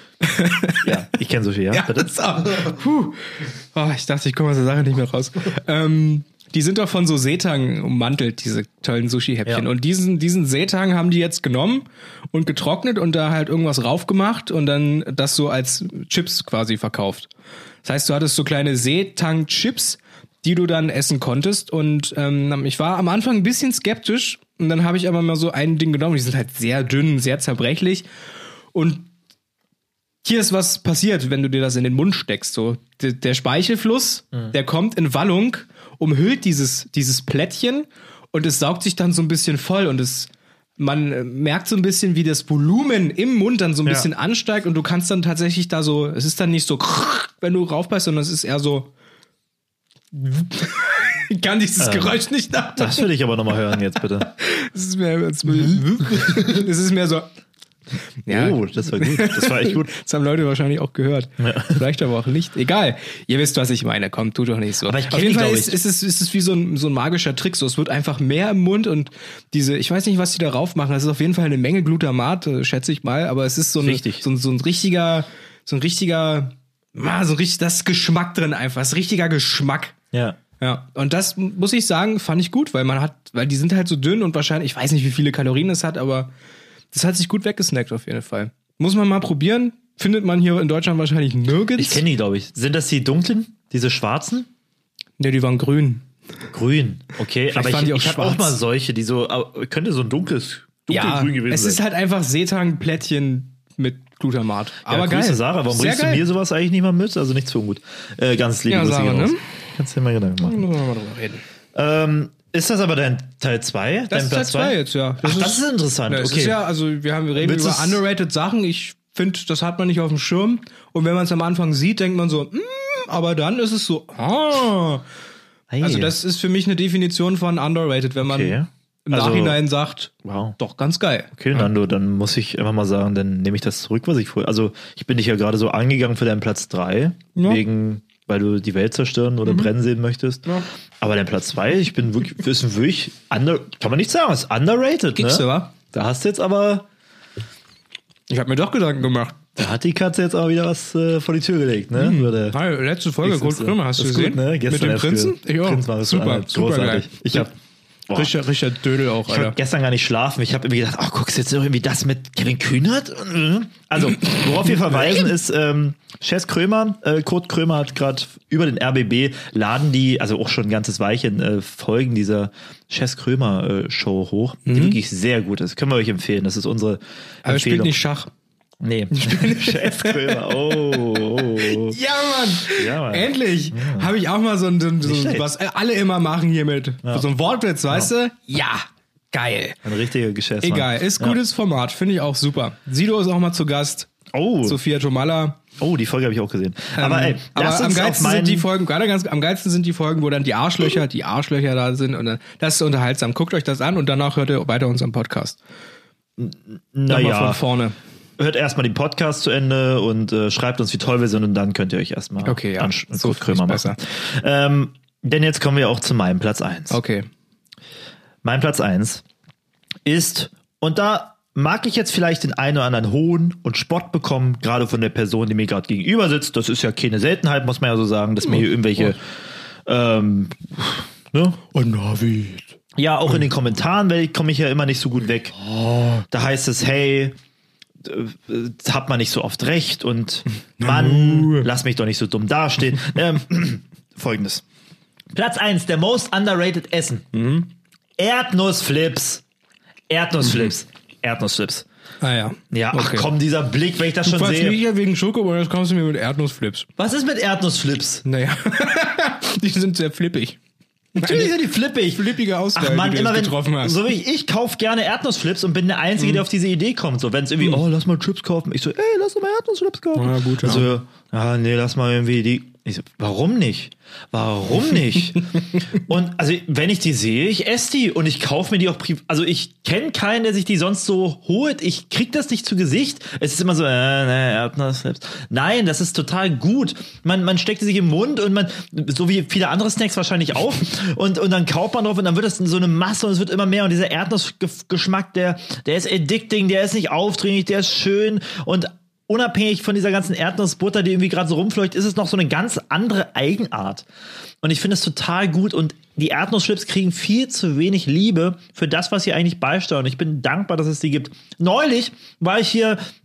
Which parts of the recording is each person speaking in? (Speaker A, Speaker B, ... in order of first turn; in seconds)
Speaker A: 0.2-0.9, 1.7-17.3, 17.8-28.1, 28.7-29.1, 30.2-48.9, 50.1-53.1, 54.2-57.3, 58.3-80.0, 80.6-86.3, 86.9-92.0, 95.2-96.0, 97.5-98.6, 100.9-106.3, 108.7-109.4, 110.4-111.4, 114.1-125.0, 125.8-131.7, 137.4-137.6, 139.4-139.7, 145.1-145.7, 148.3-149.4, 152.0-157.5, 158.1-159.6, 174.7-175.0, 177.4-178.3, 179.1-189.8, 190.6-194.1, 194.7-195.6, 197.0-205.6, 207.1-208.0, 212.4-214.0, 216.9-217.3, 231.7-232.8, 240.8-241.7, 247.3-247.7, 252.2-253.3, 254.2-256.9, 258.2-260.6, 261.1-261.6, 262.1-264.1, 270.2-270.9
Speaker B: 0.8-2.7, 51.8-52.2, 52.8-54.3, 55.5-56.6, 58.3-59.9, 61.4-61.8, 64.8-65.8, 73.8-74.2, 80.1-80.4, 91.8-94.5, 96.5-101.8, 104.9-110.6, 111.7-116.6, 117.4-118.0, 125.7-126.2, 128.2-129.6, 130.2-130.6, 131.4-140.5, 141.0-146.9, 149.6-152.6, 153.2-157.5, 159.3-178.0, 178.8-182.0, 182.6-184.1, 185.0-185.5, 189.8-191.4, 194.3-194.8, 195.8-198.7, 206.4-207.6, 208.4-217.0, 218.4-219.2, 220.1-229.2, 229.9-231.6, 232.9-237.4, 238.0-244.6, 245.3-247.5, 248.2-249.4, 250.1-251.9, 252.7-254.8, 257.0-258.2, 261.2-304.1, 304.6-313.0